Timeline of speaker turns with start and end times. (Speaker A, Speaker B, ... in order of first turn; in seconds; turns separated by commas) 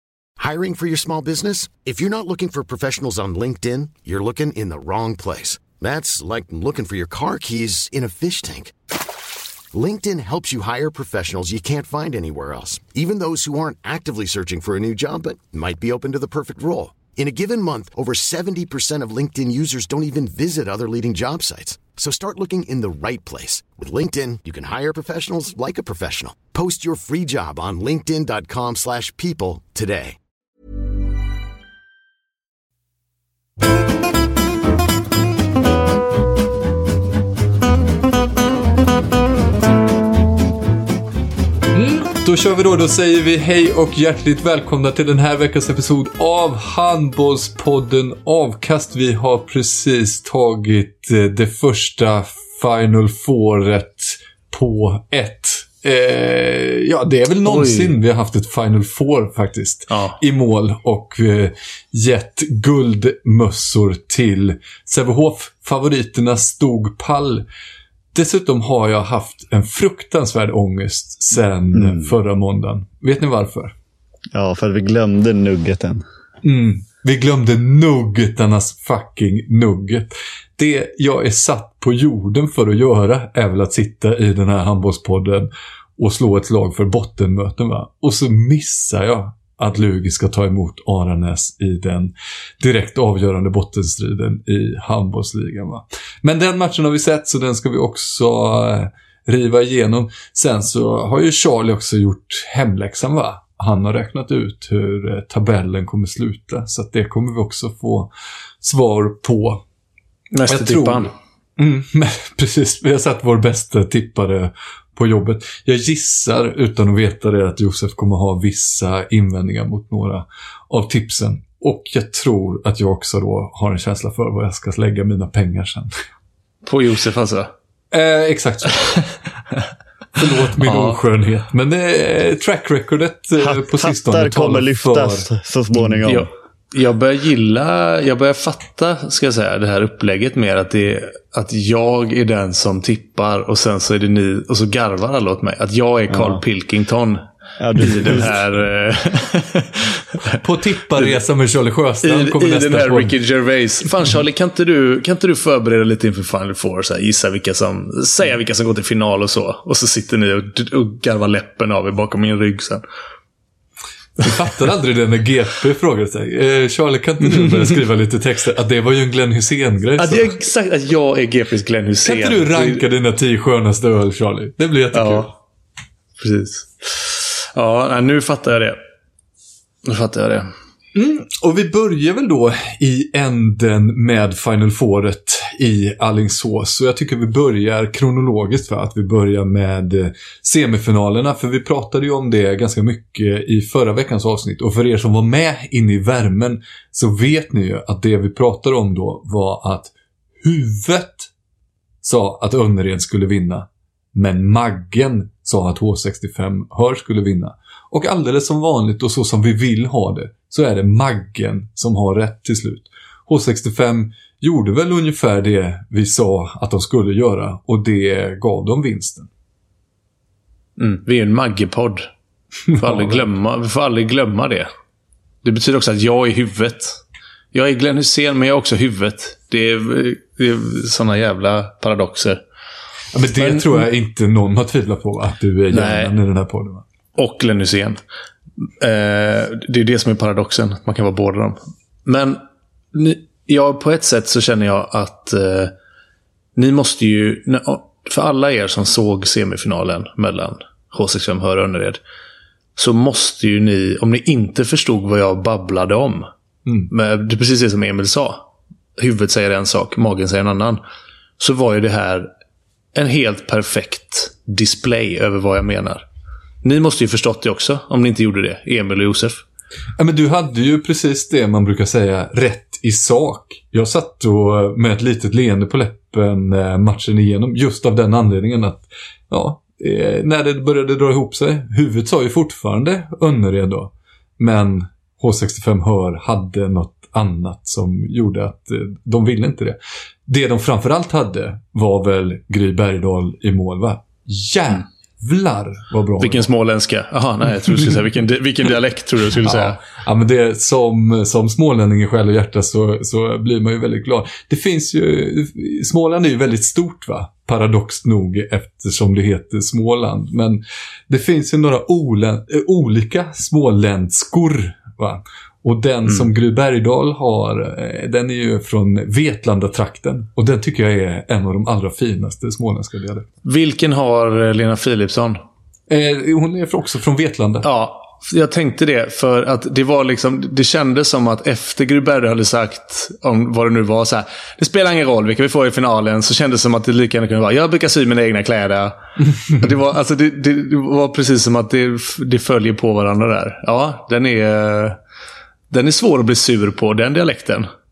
Speaker A: 0.4-8.7, Speaker A: 9.7-30.2, Speaker B: 41.7-67.4, Speaker C: 57.4-57.9, Speaker C: 59.9-60.2, Speaker B: 68.1-73.7, Speaker D: 71.7-72.1, Speaker D: 74.3-76.0, Speaker B: 76.4-108.1, Speaker B: 108.6-109.6, Speaker C: 110.3-111.1, Speaker B: 110.5-125.9, Speaker C: 126.7-127.5, Speaker B: 127.9-129.1, Speaker B: 130.2-135.3, Speaker C: 130.6-131.0, Speaker D: 133.4-136.3, Speaker C: 136.0-147.2, Speaker D: 146.1-146.4, Speaker D: 147.6-148.3, Speaker C: 147.8-150.4, Speaker B: 150.3-153.2, Speaker C: 152.0-162.8, Speaker B: 164.2-170.3, Speaker C: 167.3-167.7, Speaker C: 170.0-172.8, Speaker B: 172.0-175.3, Speaker C: 174.9-175.3, Speaker C: 176.2-178.8, Speaker C: 179.8-180.5, Speaker B: 180.9-201.3, Speaker B: 202.0-219.3, Speaker C: 220.8-222.1, Speaker B: 222.8-223.2, Speaker C: 222.8-224.7, Speaker C: 225.4-227.0, Speaker C: 227.5-232.4, Speaker B: 233.1-236.8, Speaker C: 233.4-233.7, Speaker C: 235.7-236.1, Speaker C: 237.2-238.0, Speaker C: 238.8-242.4, Speaker C: 242.9-245.7, Speaker C: 246.6-252.0, Speaker C: 252.8-256.3, Speaker B: 256.7-256.9, Speaker C: 256.9-258.5, Speaker C: 259.0-260.8, Speaker C: 261.4-262.3, Speaker C: 262.9-266.1, Speaker C: 266.6-269.4, Speaker B: 270.0-296.5, Speaker C: 296.2-299.8, Speaker B: 299.4-323.3, Speaker C: 323.4-325.4, Speaker B: 325.9-327.7, Speaker C: 327.6-345.0, Speaker C: 345.7-347.7